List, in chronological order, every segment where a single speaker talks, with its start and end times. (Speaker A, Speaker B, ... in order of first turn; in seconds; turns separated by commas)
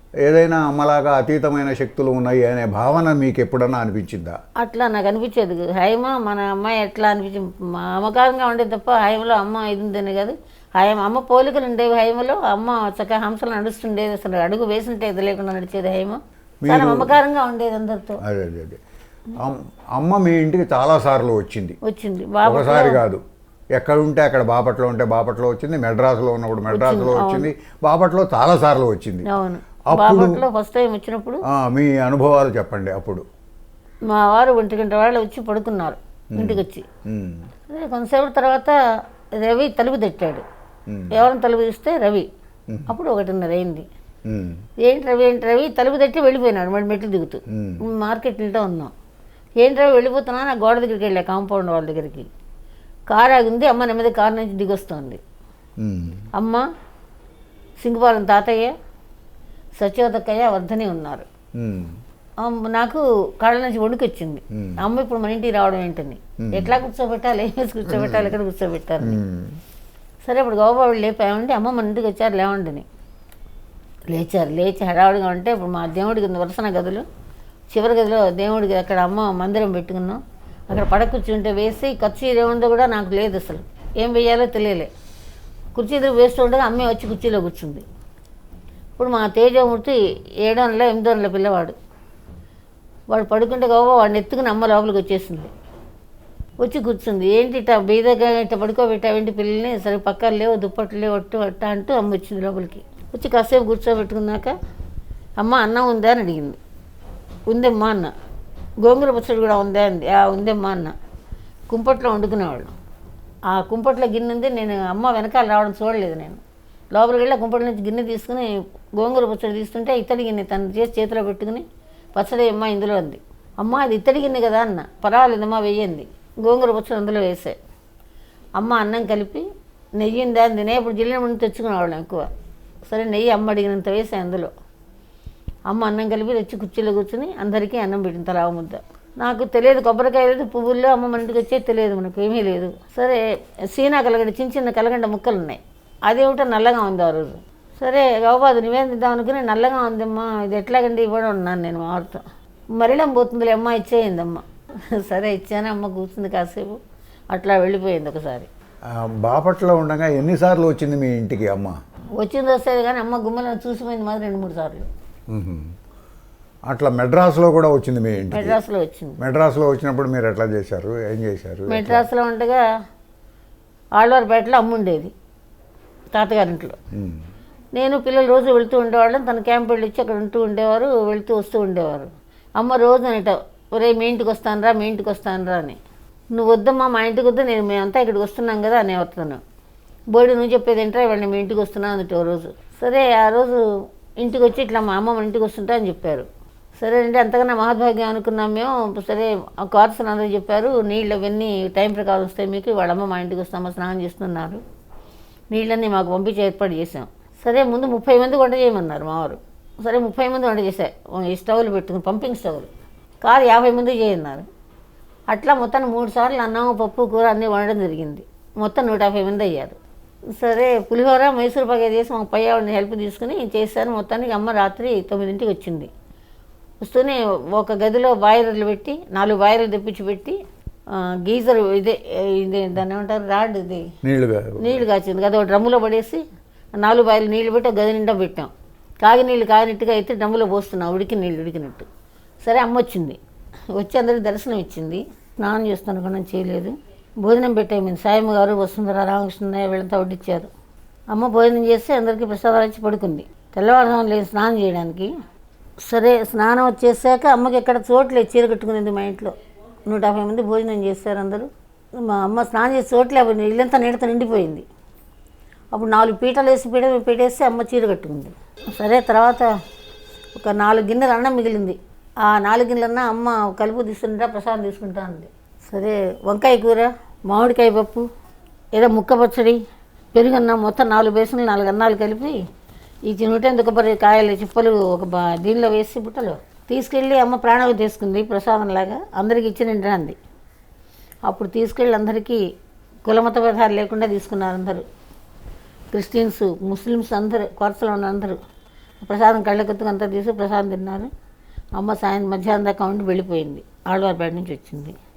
Speaker A: 0.2-4.4, Speaker B: 4.6-18.2, Speaker A: 16.6-17.1, Speaker A: 18.2-18.8, Speaker A: 19.4-21.8, Speaker B: 21.8-23.0, Speaker A: 22.4-23.2, Speaker A: 23.8-29.3, Speaker B: 26.7-27.5, Speaker B: 29.2-31.4, Speaker A: 29.9-30.4, Speaker A: 31.5-33.3, Speaker B: 34.1-36.9, Speaker A: 36.3-37.5, Speaker B: 37.7-38.8, Speaker B: 39.4-40.5, Speaker A: 40.9-41.1, Speaker B: 41.1-42.3, Speaker B: 42.9-43.9, Speaker A: 44.3-44.6, Speaker B: 44.8-48.9, Speaker A: 47.5-47.8, Speaker B: 49.6-52.3, Speaker B: 53.1-55.2, Speaker A: 55.8-56.2, Speaker B: 56.4-56.6, Speaker B: 57.8-58.7, Speaker B: 59.8-61.3, Speaker A: 61.6-62.0, Speaker B: 62.4-69.2, Speaker A: 64.5-64.8, Speaker A: 66.4-66.8, Speaker A: 67.9-68.3, Speaker A: 69.0-69.6, Speaker B: 70.2-72.9, Speaker B: 74.1-77.1, Speaker B: 77.7-84.9, Speaker B: 85.8-87.8, Speaker B: 89.0-91.8, Speaker B: 93.1-95.5, Speaker B: 96.6-104.5, Speaker B: 105.4-106.6, Speaker B: 107.5-108.1, Speaker B: 108.8-111.0, Speaker B: 111.7-112.7, Speaker B: 113.5-116.4, Speaker B: 116.9-127.6, Speaker B: 128.6-129.4, Speaker B: 130.0-132.3, Speaker B: 132.9-134.5, Speaker B: 135.7-156.8, Speaker B: 157.3-158.5, Speaker A: 158.9-161.8, Speaker B: 162.2-164.9, Speaker A: 165.3-165.7, Speaker A: 166.7-168.6, Speaker B: 168.3-169.2, Speaker A: 169.2-172.1, Speaker B: 171.7-172.6, Speaker B: 174.0-175.1, Speaker B: 176.1-176.8, Speaker A: 176.9-177.2, Speaker B: 177.8-185.8, Speaker B: 186.3-189.4, Speaker B: 190.1-204.6, Speaker B: 205.5-212.7, Speaker B: 213.2-214.5, Speaker B: 215.3-219.8, Speaker B: 220.3-225.9, Speaker B: 226.8-230.4, Speaker B: 230.9-233.9, Speaker A: 234.0-234.8, Speaker B: 234.6-236.2, Speaker B: 236.7-241.9, Speaker B: 242.4-243.2, Speaker B: 243.7-250.5, Speaker B: 251.1-255.1, Speaker B: 255.8-259.3, Speaker B: 259.9-264.6, Speaker B: 265.7-269.5, Speaker B: 270.4-278.1, Speaker B: 278.7-279.6, Speaker B: 280.1-282.4, Speaker B: 283.1-290.2, Speaker B: 291.3-292.4, Speaker B: 293.1-294.9, Speaker B: 295.9-298.4, Speaker B: 299.0-301.1, Speaker B: 301.8-304.9